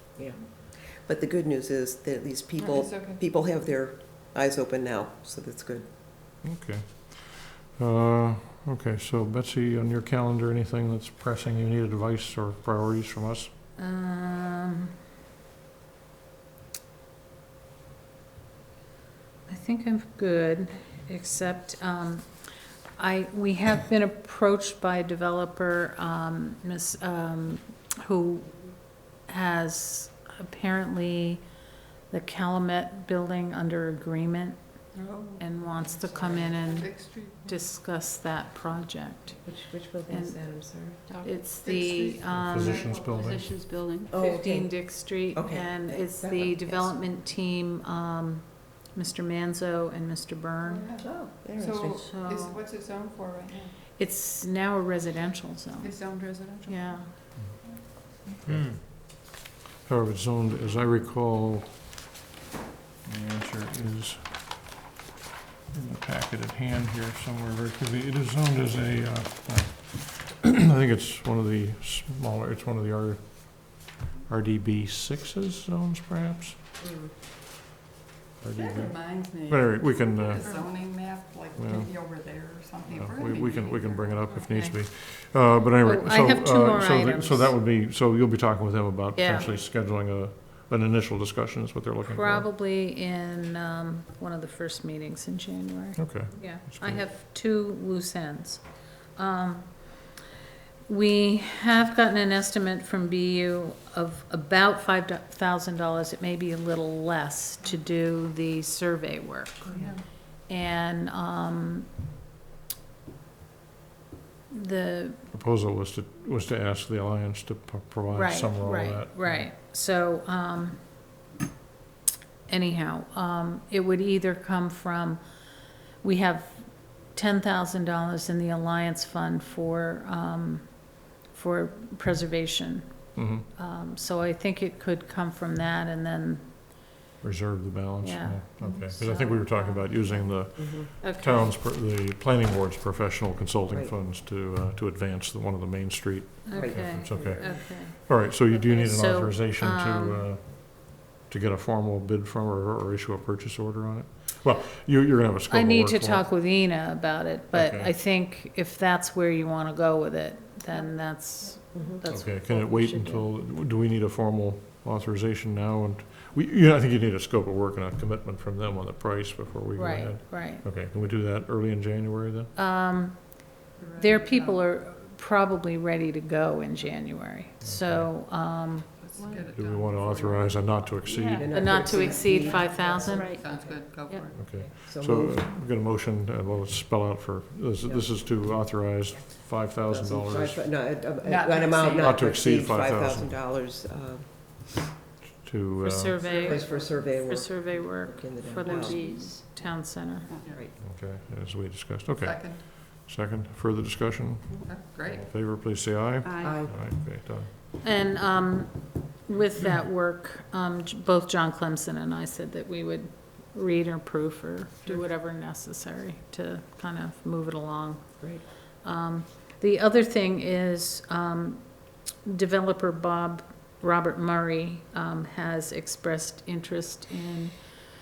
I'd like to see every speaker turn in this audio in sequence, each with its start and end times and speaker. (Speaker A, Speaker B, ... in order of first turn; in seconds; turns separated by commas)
Speaker A: 0.2-5.9, Speaker B: 2.6-3.2, Speaker C: 6.4-13.5, Speaker D: 13.8-14.9, Speaker D: 19.5-22.3, Speaker D: 23.0-31.4, Speaker D: 32.1-34.6, Speaker B: 34.9-37.6, Speaker D: 35.4-39.4, Speaker A: 39.4-41.0, Speaker D: 40.1-42.9, Speaker E: 41.1-41.5, Speaker B: 41.6-43.3, Speaker C: 42.3-43.5, Speaker E: 42.9-44.2, Speaker A: 44.1-46.9, Speaker D: 44.1-50.9, Speaker B: 50.6-53.8, Speaker A: 51.0-51.9, Speaker D: 51.8-52.6, Speaker D: 54.0-56.0, Speaker B: 55.8-57.8, Speaker D: 56.6-57.1, Speaker C: 58.4-58.7, Speaker C: 59.8-61.9, Speaker C: 63.0-64.6, Speaker C: 65.7-76.6, Speaker A: 76.8-77.1, Speaker C: 78.4-80.5, Speaker B: 78.5-84.4, Speaker C: 81.5-81.9, Speaker C: 82.9-92.5, Speaker D: 84.5-84.8, Speaker D: 85.8-87.5, Speaker D: 89.1-89.5, Speaker D: 92.0-100.1, Speaker C: 96.0-97.1, Speaker D: 100.8-111.9, Speaker B: 109.7-110.0, Speaker D: 114.5-115.2, Speaker C: 115.3-119.5, Speaker D: 118.1-120.8, Speaker D: 122.5-125.2, Speaker D: 126.0-136.9, Speaker C: 133.2-133.4, Speaker C: 137.2-156.3, Speaker D: 138.0-141.6, Speaker A: 140.6-140.9, Speaker D: 146.4-150.2, Speaker A: 146.5-147.7, Speaker D: 155.5-163.3, Speaker C: 157.5-157.9, Speaker A: 161.7-162.0, Speaker C: 162.0-172.5, Speaker D: 169.7-170.7, Speaker D: 172.5-178.9, Speaker B: 173.8-174.6, Speaker C: 177.6-178.2, Speaker B: 179.0-180.9, Speaker E: 179.1-179.5, Speaker C: 179.5-181.5, Speaker E: 181.2-181.5, Speaker A: 181.2-183.2, Speaker D: 181.5-183.3, Speaker B: 181.9-184.6, Speaker E: 183.0-184.3, Speaker C: 184.3-190.7, Speaker A: 184.9-185.5, Speaker A: 187.8-188.1, Speaker A: 189.9-194.7, Speaker B: 191.2-192.2, Speaker C: 192.0-193.4, Speaker C: 195.4-196.3, Speaker D: 195.8-200.3, Speaker B: 196.2-196.6, Speaker A: 196.4-199.0, Speaker E: 198.6-199.7, Speaker C: 200.8-207.5, Speaker B: 202.2-202.7, Speaker B: 204.6-205.3, Speaker E: 206.2-206.6, Speaker A: 206.4-206.7, Speaker D: 207.8-227.6